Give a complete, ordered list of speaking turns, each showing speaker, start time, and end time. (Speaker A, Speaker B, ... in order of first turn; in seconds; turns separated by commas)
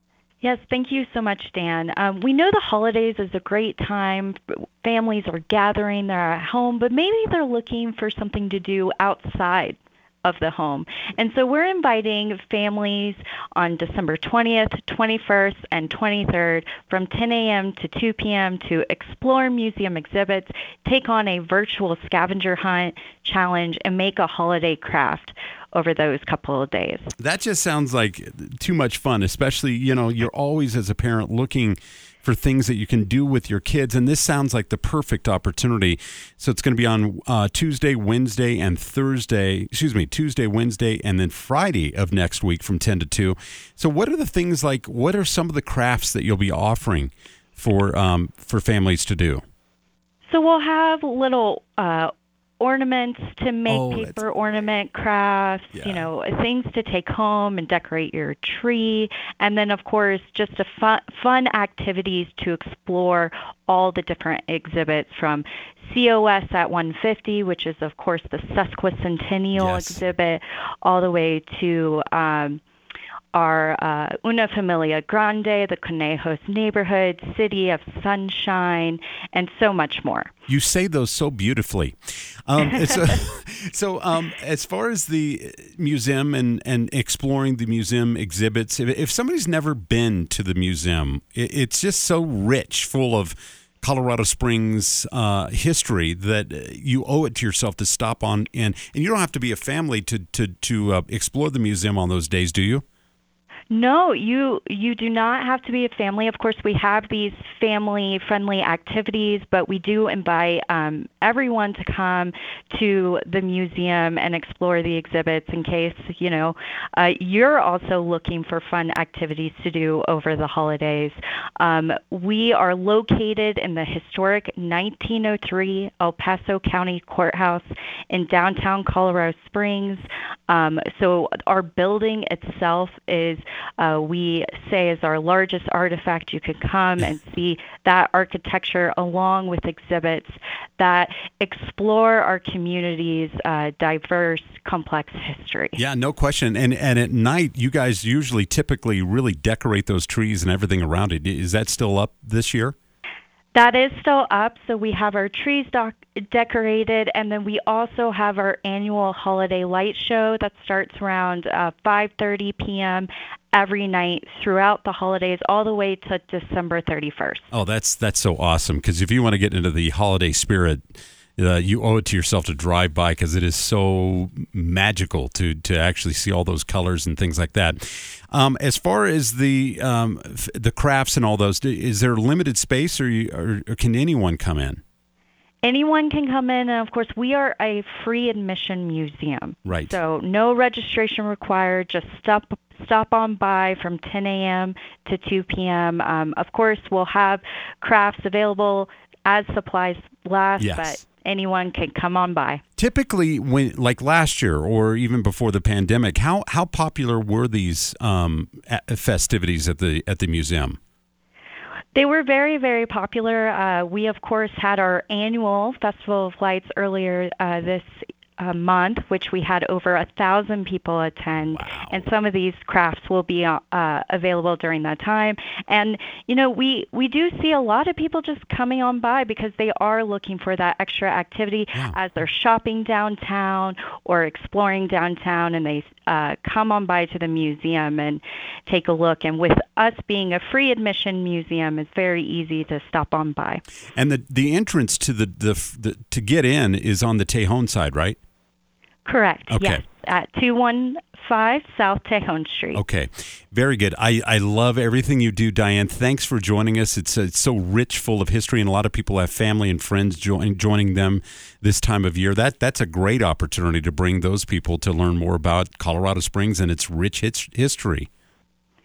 Speaker A: 0.4-27.1, Speaker B: 27.2-49.4, Speaker A: 50.3-72.6, Speaker B: 53.7-54.2, Speaker B: 55.7-56.0, Speaker B: 69.5-70.0, Speaker A: 73.3-80.3, Speaker B: 80.5-82.0, Speaker B: 82.5-102.8, Speaker A: 103.7-145.8, Speaker B: 145.8-152.8, Speaker A: 153.5-167.5, Speaker B: 167.5-184.8, Speaker A: 185.6-202.6, Speaker B: 189.7-190.0, Speaker B: 200.6-201.0, Speaker B: 202.8-210.8, Speaker A: 211.9-217.9, Speaker A: 218.4-243.6, Speaker B: 221.5-222.0, Speaker B: 244.0-248.2, Speaker A: 249.1-252.8, Speaker B: 249.5-249.8, Speaker B: 252.8-268.1